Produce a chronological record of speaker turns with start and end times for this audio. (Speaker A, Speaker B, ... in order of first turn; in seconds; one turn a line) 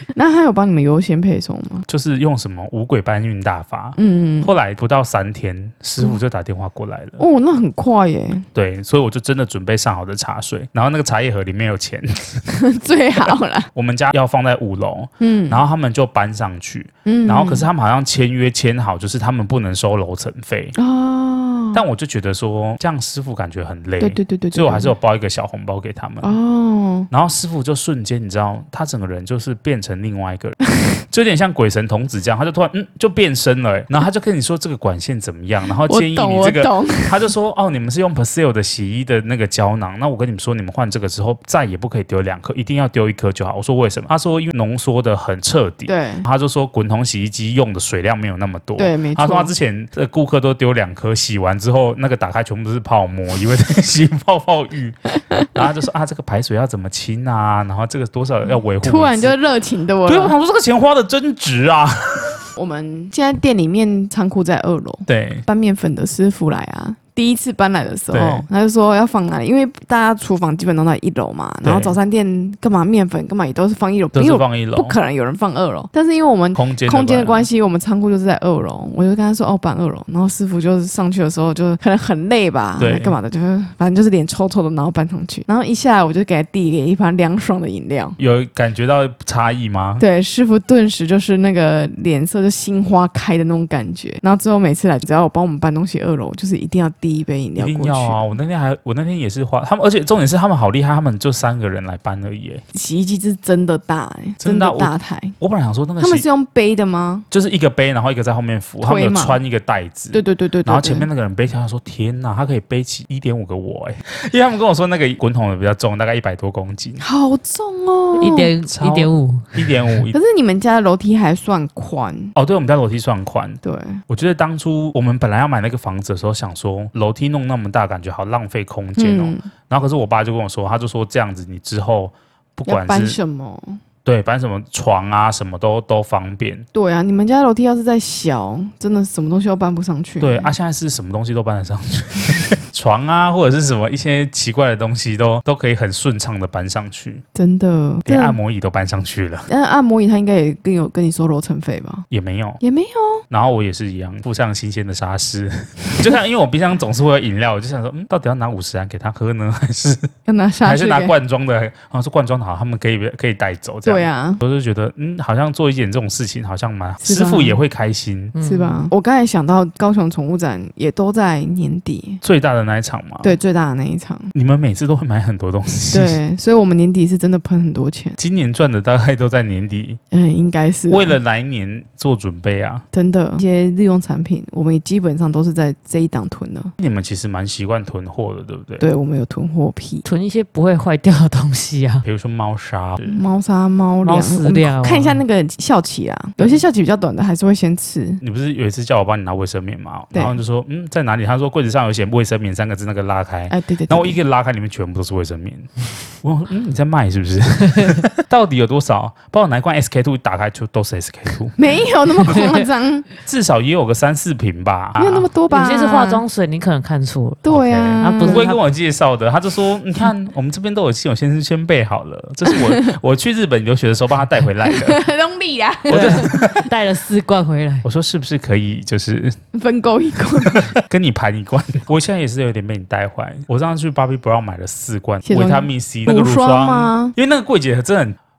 Speaker A: 0.1-1.9
Speaker B: 1.9-7.2
Speaker A: 4.0-4.5
Speaker A: 7.2-8.5
Speaker B: 8.5-12.5
Speaker A: 12.5-13.7
Speaker B: 13.7-20.8
Speaker A: 15.2-15.6
Speaker A: 17.1-17.7
Speaker A: 20.8-21.8
Speaker B: 21.7-26.4
Speaker A: 24.0-24.9
Speaker A: 26.2-27.1
Speaker B: 27.1-30.6
Speaker B: 31.1-59.4
Speaker A: 35.8-37.3
Speaker A: 45.9-46.3
Speaker A: 48.8-49.5
Speaker A: 58.8-60.4
Speaker B: 60.0-62.4
Speaker A: 62.6-88.2
Speaker B: 65.1-65.5
Speaker B: 68.1-68.5
Speaker B: 71.6-72.0
Speaker B: 74.2-75.0
Speaker B: 76.5-77.5
Speaker B: 82.8-83.2
Speaker B: 88.2-90.0
Speaker A: 90.0-98.3
Speaker B: 97.6-102.6
Speaker A: 102.7-105.4
Speaker B: 104.4-106.3
Speaker A: 106.0-107.3
Speaker B: 107.3-117.0
Speaker A: 108.8-109.4
Speaker A: 110.1-111.1
Speaker A: 117.0-118.5
Speaker C: 118.2-119.6
Speaker B: 118.7-120.2
Speaker A: 120.1-122.3
Speaker B: 122.3-133.2
Speaker A: 123.6-124.0
Speaker A: 129.0-129.5
Speaker A: 132.7-133.8
Speaker B: 134.1-136.7
Speaker A: 136.7-140.5
Speaker B: 140.2-147.2
Speaker A: 147.3-148.4
Speaker B: 148.1-149.5
Speaker A: 149.5-152.1
Speaker B: 152.1-152.6
Speaker A: 152.6-153.2
Speaker B: 153.3-160.1
Speaker A: 160.3-161.1
Speaker B: 160.6-168.3
Speaker A: 163.8-164.4
Speaker A: 167.0-167.6
Speaker C: 168.3-168.9
Speaker A: 168.4-172.2
Speaker B: 172.2-173.4
Speaker A: 173.2-174.3
Speaker B: 174.3-176.2
Speaker A: 175.9-178.2
Speaker B: 178.2-180.0
Speaker A: 180.1-181.2
Speaker B: 180.9-182.8
Speaker A: 182.9-186.7
Speaker B: 186.8-188.9
Speaker A: 188.8-190.0
Speaker C: 190.0-192.1
Speaker B: 192.0-193.2
Speaker A: 193.1-198.2
Speaker C: 194.0-195.2
Speaker B: 198.2-211.6
Speaker A: 203.5-204.2
Speaker A: 211.6-213.1
Speaker B: 213.2-215.3
Speaker A: 215.0-216.2
Speaker C: 215.5-218.6
Speaker A: 217.4-218.6
Speaker B: 217.5-225.1
Speaker A: 222.5-222.9
Speaker A: 224.7-226.5
Speaker B: 225.9-226.7
Speaker C: 225.9-227.9
Speaker B: 227.8-229.4
Speaker A: 229.5-230.7
Speaker B: 230.4-238.2
Speaker A: 235.2-237.2